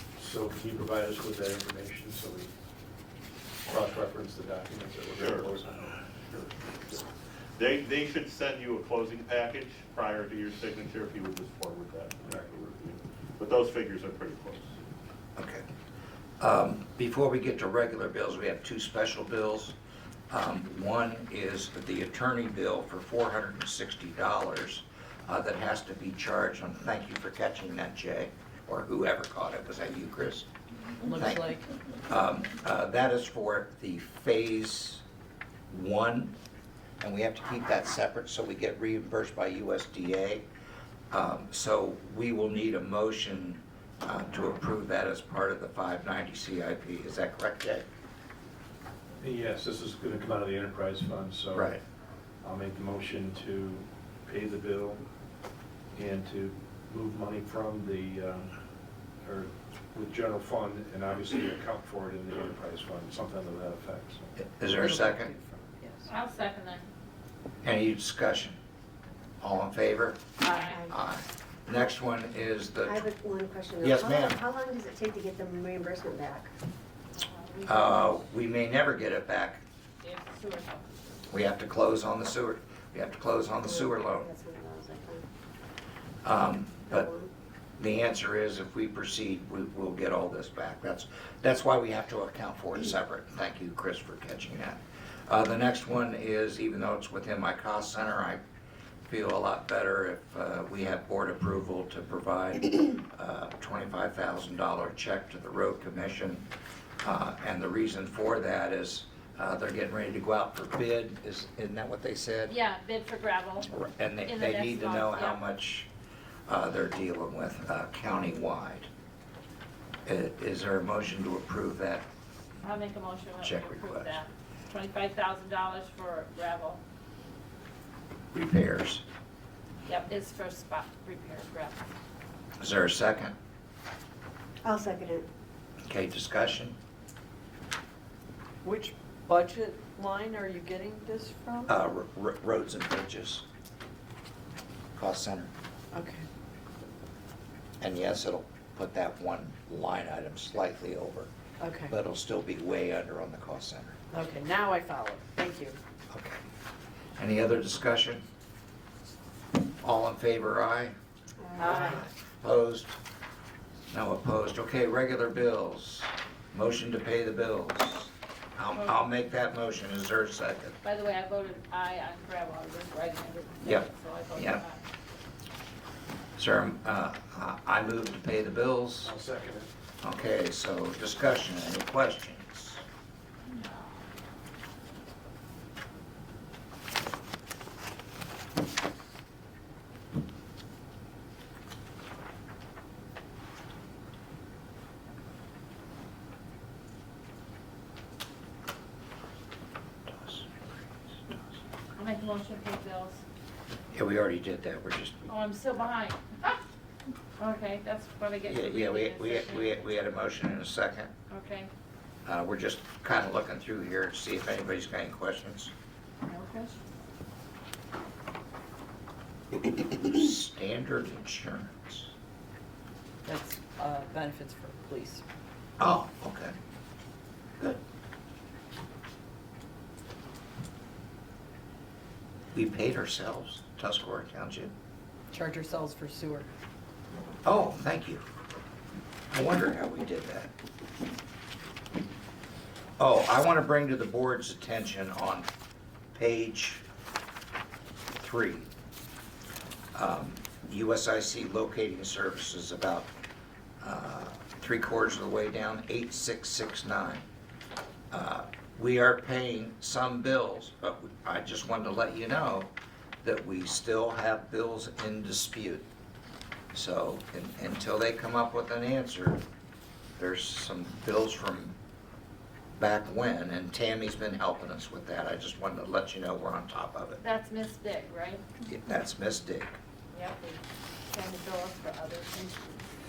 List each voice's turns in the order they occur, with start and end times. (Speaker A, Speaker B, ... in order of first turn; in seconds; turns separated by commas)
Speaker A: 0.1-2.5, Speaker A: 3.6-6.0, Speaker B: 5.2-14.8, Speaker A: 12.2-12.5, Speaker C: 15.4-15.7, Speaker C: 16.4-19.8, Speaker C: 20.3-30.5, Speaker D: 31.0-31.6, Speaker C: 31.1-31.4, Speaker C: 32.1-35.0, Speaker C: 35.7-36.4, Speaker C: 37.0-40.5, Speaker C: 41.1-47.8, Speaker A: 49.2-51.8, Speaker C: 51.5-51.8, Speaker A: 52.4-55.0, Speaker A: 55.9-58.5, Speaker A: 59.2-64.3, Speaker C: 64.4-65.3, Speaker D: 64.7-66.1, Speaker E: 66.1-66.8, Speaker C: 67.6-68.6, Speaker C: 69.4-70.3, Speaker F: 70.4-70.9, Speaker E: 70.4-70.8, Speaker C: 70.9-73.0, Speaker F: 72.8-76.5, Speaker C: 73.8-74.4, Speaker E: 77.2-78.2, Speaker C: 77.6-79.6, Speaker E: 80.0-80.9, Speaker C: 81.3-84.3, Speaker F: 83.6-85.2, Speaker C: 86.2-87.1, Speaker F: 86.9-87.3, Speaker C: 87.8-98.4, Speaker C: 99.1-106.5, Speaker C: 107.0-112.5, Speaker E: 112.5-113.7, Speaker C: 113.7-115.9, Speaker E: 114.2-115.4, Speaker C: 116.5-118.9, Speaker C: 120.0-122.1, Speaker E: 122.6-126.8, Speaker C: 123.4-124.2, Speaker C: 128.3-129.0, Speaker E: 129.8-131.9, Speaker C: 132.6-133.3, Speaker F: 134.6-135.2, Speaker C: 135.8-136.8, Speaker D: 138.6-141.7, Speaker C: 141.7-143.4, Speaker C: 144.9-145.5, Speaker D: 145.9-146.2, Speaker C: 147.8-151.3, Speaker D: 151.6-151.9, Speaker C: 151.9-154.0, Speaker D: 154.1-155.8, Speaker C: 156.1-156.4, Speaker C: 157.2-158.2, Speaker C: 159.8-160.9, Speaker F: 161.4-162.0, Speaker E: 161.6-162.0, Speaker C: 161.6-163.0, Speaker C: 163.9-170.8, Speaker E: 168.7-169.0, Speaker E: 170.8-174.8, Speaker C: 173.6-174.6, Speaker C: 176.4-179.1, Speaker A: 179.0-179.7, Speaker C: 180.0-182.8, Speaker E: 183.5-184.0, Speaker C: 200.1-201.4, Speaker E: 201.9-203.2, Speaker C: 203.9-205.3, Speaker E: 205.3-206.6, Speaker E: 207.4-209.9, Speaker C: 208.4-211.1, Speaker E: 211.3-211.7, Speaker C: 212.2-215.7, Speaker D: 216.3-216.7, Speaker C: 219.5-222.1, Speaker D: 223.2-225.2, Speaker C: 225.8-226.5, Speaker C: 232.5-234.7, Speaker D: 235.3-236.5, Speaker C: 237.4-238.2, Speaker C: 239.3-240.5, Speaker C: 243.0-245.5, Speaker C: 246.1-246.8, Speaker C: 248.2-248.7, Speaker C: 249.9-253.1, Speaker C: 253.8-257.2, Speaker C: 258.1-265.9, Speaker C: 266.7-269.4, Speaker C: 270.2-271.8, Speaker C: 272.8-277.2, Speaker E: 277.2-278.4, Speaker C: 278.6-279.7, Speaker E: 280.1-282.8